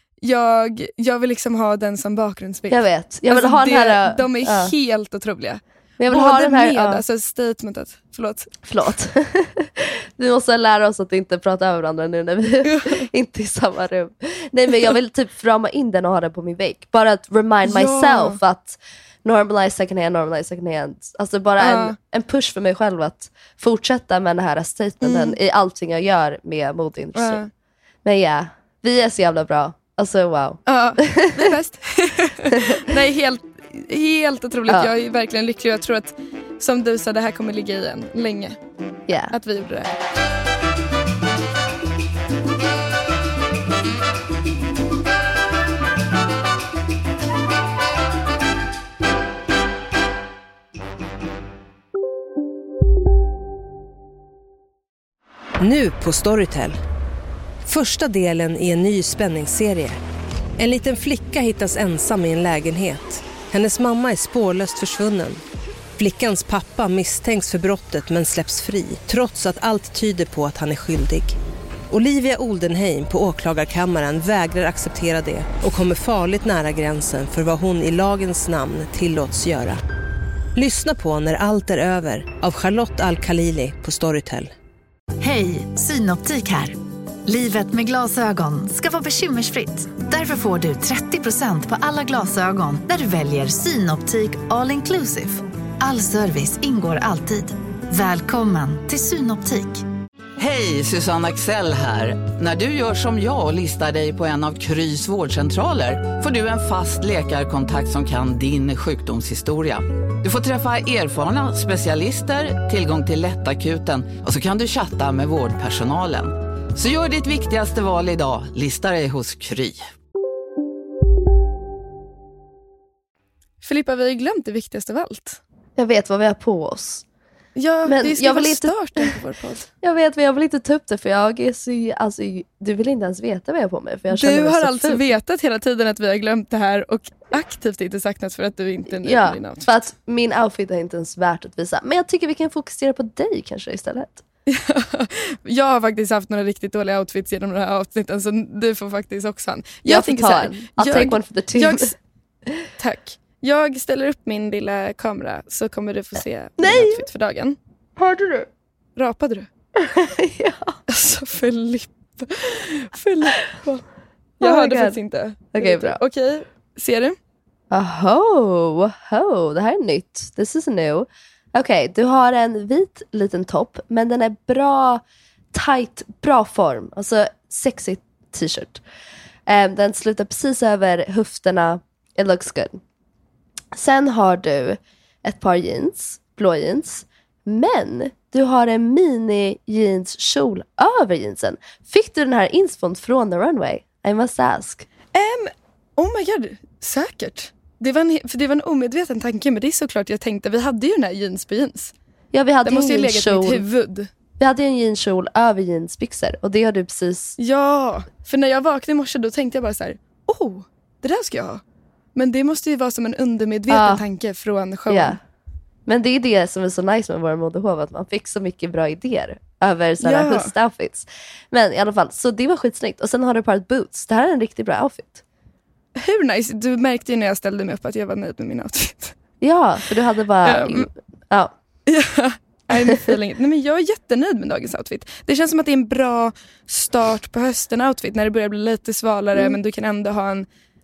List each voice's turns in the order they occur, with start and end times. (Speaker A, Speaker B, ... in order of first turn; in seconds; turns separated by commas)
Speaker A: 0.2-8.5, Speaker B: 2.7-4.7, Speaker B: 6.0-7.0, Speaker B: 8.6-27.4, Speaker A: 12.7-13.1, Speaker A: 17.6-18.4, Speaker A: 21.6-22.0, Speaker A: 25.0-25.4, Speaker A: 27.1-27.5, Speaker B: 28.1-31.5, Speaker A: 30.7-38.6, Speaker B: 32.5-32.8, Speaker B: 39.1-39.3, Speaker A: 39.3-39.9, Speaker C: 55.6-56.8, Speaker C: 57.6-60.0, Speaker C: 60.6-65.4, Speaker C: 66.0-71.4, Speaker C: 71.9-79.8, Speaker C: 80.5-84.5, Speaker D: 85.2-99.8, Speaker E: 100.4-119.9, Speaker A: 123.6-125.4, Speaker B: 125.8-127.0, Speaker A: 127.6-129.7, Speaker B: 127.9-129.2, Speaker B: 129.8-135.0, Speaker A: 134.1-139.6, Speaker B: 138.9-144.2, Speaker A: 144.5-151.9, Speaker B: 149.8-151.9, Speaker A: 152.8-157.6, Speaker B: 156.6-157.1, Speaker B: 158.0-158.5, Speaker A: 159.0-159.5, Speaker B: 159.8-160.8, Speaker A: 160.9-163.8, Speaker B: 164.4-165.0, Speaker A: 164.4-167.2, Speaker B: 165.5-166.0, Speaker B: 167.7-178.8, Speaker B: 179.5-182.8, Speaker B: 183.7-194.9, Speaker A: 195.1-201.9, Speaker B: 202.3-203.6, Speaker A: 202.7-204.1, Speaker B: 204.4-207.4, Speaker A: 207.4-211.6, Speaker A: 212.2-215.2, Speaker B: 213.7-214.0, Speaker B: 214.9-215.2, Speaker B: 215.9-225.2, Speaker A: 220.0-220.5, Speaker A: 226.0-229.2, Speaker B: 229.4-231.5, Speaker A: 230.4-230.9, Speaker A: 231.9-240.5, Speaker B: 232.8-233.1